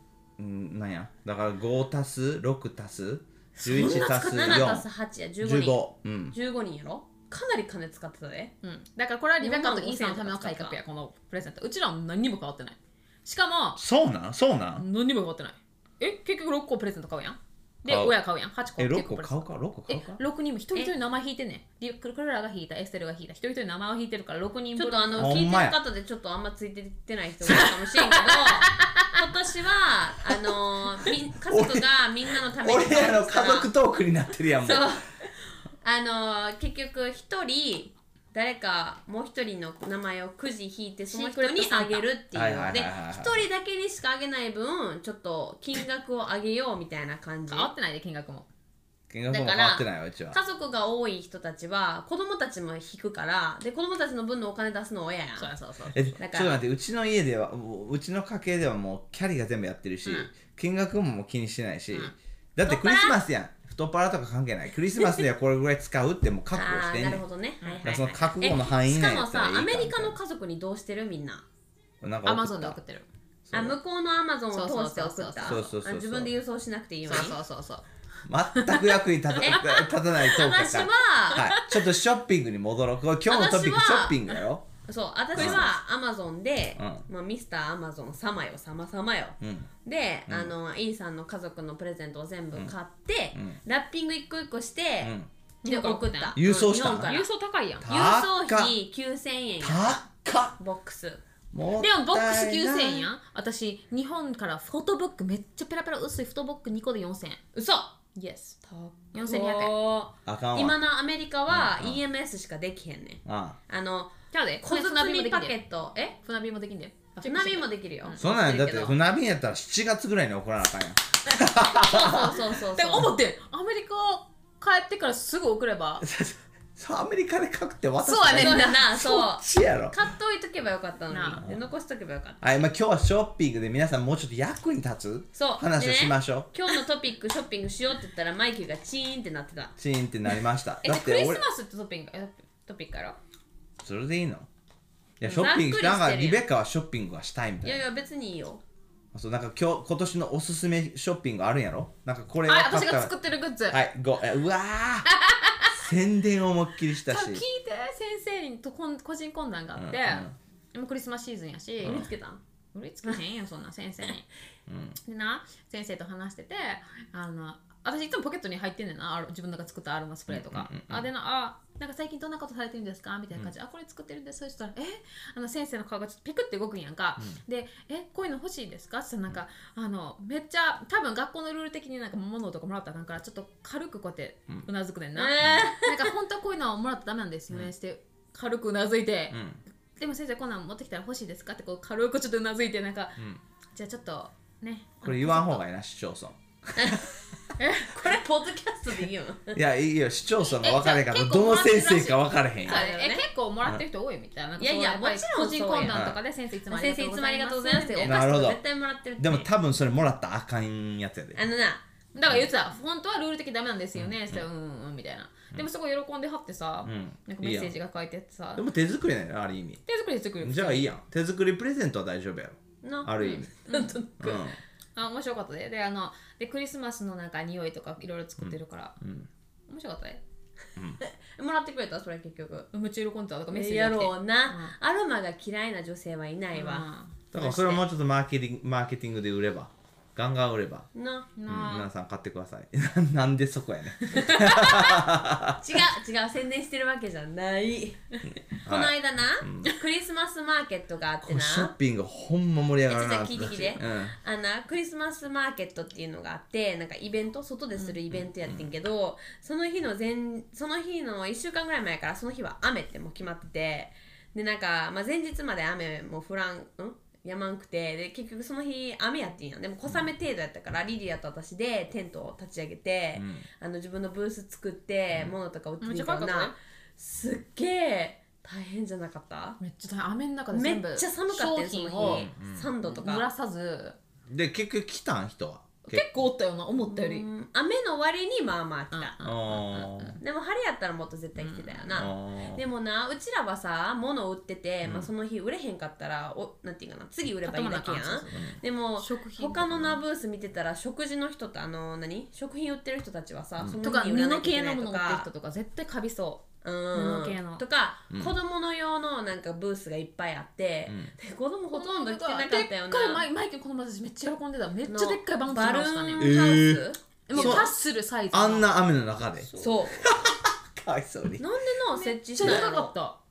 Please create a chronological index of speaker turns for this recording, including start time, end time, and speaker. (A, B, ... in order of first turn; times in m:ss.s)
0:00.4-0:04.9 A
0:03.6-0:04.6 B
0:03.6-0:08.6 C
0:05.4-0:06.4 A
0:08.6-0:13.8 B
0:09.4-0:10.8 C
0:13.8-0:14.8 A
0:14.8-0:25.4 B
0:17.9-0:18.2 A
0:18.8-0:20.2 A
0:24.8-0:33.7 C
0:25.2-0:25.8 A
0:27.5-0:29.2 B
0:31.5-0:31.9 A
0:32.6-0:34.9 A
0:34.6-0:35.1 C
0:35.8-0:47.7 C
0:41.1-0:42.0 B
0:42.3-0:43.5 A
0:47.5-0:48.5 B
0:49.1-0:50.4 A
0:49.3-0:55.5 C
0:55.4-0:56.2 B
0:55.9-1:07.2 A
0:56.2-0:56.6 C
1:00.0-1:00.3 B
1:02.6-1:03.2 C
1:06.5-1:11.4 C
1:07.8-1:10.2 A
1:12.0-1:12.8 A
1:12.2-1:13.1 B
1:13.5-1:13.8 A
1:13.5-1:17.4 C
1:14.5-1:15.6 B
1:15.4-1:16.3 A
1:17.1-1:17.8 B
1:18.3-1:24.6 A
1:18.5-1:19.6 B
1:19.4-1:21.5 C
1:21.4-1:21.7 B
1:23.3-1:35.1 C
1:25.4-1:25.7 A
1:25.4-1:25.7 B
1:26.8-1:27.0 A
1:29.4-1:29.7 A
1:30.3-1:30.5 A
1:35.0-1:35.3 A
1:35.6-1:36.4 B
1:35.6-1:37.3 C
1:36.4-1:37.1 A
1:36.9-1:37.9 B
1:37.8-1:38.7 A
1:37.9-1:40.0 C
1:39.6-1:40.6 A
1:40.6-1:41.2 C
1:41.5-1:43.1 A
1:41.8-1:47.4 B
1:47.5-1:48.0 C
1:48.2-1:48.6 B
1:48.6-1:56.2 C
1:49.1-1:49.8 B
1:50.3-1:50.8 A
1:51.5-1:52.0 A
1:53.3-1:53.6 A
1:54.3-1:55.5 B
1:56.2-1:58.2 B
1:57.2-1:59.0 C
1:58.2-2:02.4 A
2:01.8-2:03.1 C
2:02.2-2:06.0 B
2:06.0-2:10.0 A
2:08.0-2:09.0 B
2:08.3-2:12.4 C
2:11.1-2:11.4 B
2:12.4-2:16.5 A
2:15.4-2:19.7 C
2:19.8-2:21.4 A
2:20.8-2:23.2 B
2:23.8-2:24.5 A
2:25.2-2:27.8 A
2:25.2-2:26.4 C
2:27.6-2:28.6 C
2:29.1-2:33.1 A
2:32.5-2:33.8 B
2:33.7-2:35.1 A
2:35.1-2:35.8 B
2:35.7-2:37.4 A
2:37.0-2:42.1 B
2:39.8-2:40.3 A
2:41.8-2:42.1 A
2:41.8-2:42.4 C
2:42.7-2:44.3 B
2:44.7-2:45.0 A
2:45.0-3:09.4 B
2:50.3-2:51.1 A
3:05.2-3:06.1 C
3:09.3-3:09.6 A
3:10.0-3:13.2 B
3:13.8-3:15.6 B
3:15.0-3:17.1 A
3:16.8-3:17.1 C
3:17.6-3:17.9 B
3:17.8-3:19.6 C
3:19.5-3:22.8 A
3:20.5-3:28.2 B
3:22.6-3:23.3 C
3:24.6-3:26.1 C
3:25.9-3:26.2 A
3:26.7-3:29.5 C
3:28.0-3:28.6 A
3:29.2-3:31.4 A
3:31.4-3:31.8 C
3:32.2-3:38.6 B
3:34.0-3:34.4 A
3:36.8-3:37.7 A
3:38.6-3:39.8 A
3:39.9-3:40.9 B
3:40.4-3:43.5 A
3:42.8-3:44.5 C
3:43.2-3:44.0 B
3:44.2-3:44.6 A
3:45.0-3:49.0 B
3:48.4-3:49.3 A
3:49.7-3:50.2 B
3:51.0-3:52.7 C
3:52.7-3:54.7 B
3:53.5-3:56.9 C
3:56.5-3:57.8 B
3:57.3-4:00.9 A
4:01.0-4:01.3 C
4:01.4-4:01.9 B
4:01.5-4:05.6 A
4:04.1-4:04.9 B
4:05.6-4:11.7 C
4:08.7-4:09.7 A
4:11.2-4:14.2 A
4:12.9-4:39.6 C
4:18.1-4:18.7 A
4:33.2-4:33.5 A
4:35.8-4:36.5 B
4:39.6-4:42.3 B
4:40.5-4:43.3 C
4:42.0-4:42.7 A
4:42.9-4:44.0 B
4:44.3-4:46.1 A
4:45.9-4:47.3 B
4:46.9-4:49.2 C
4:48.9-4:50.2 B
4:49.2-4:50.2 A
4:50.2-5:05.3 C
4:51.4-4:51.9 B
4:51.9-4:52.6 A
4:54.8-4:55.1 A
4:57.4-4:58.4 B
4:59.0-5:00.0 B
5:03.8-5:07.6 B
5:06.6-5:13.3 C
5:11.7-5:16.4 B
5:14.9-5:17.7 C
5:16.2-5:17.7 A
5:17.3-5:18.7 B
5:18.3-5:21.4 A
5:19.4-5:19.8 B
5:19.6-5:20.1 C
5:21.4-5:22.9 C
5:21.9-5:23.2 B
5:22.4-5:22.7 A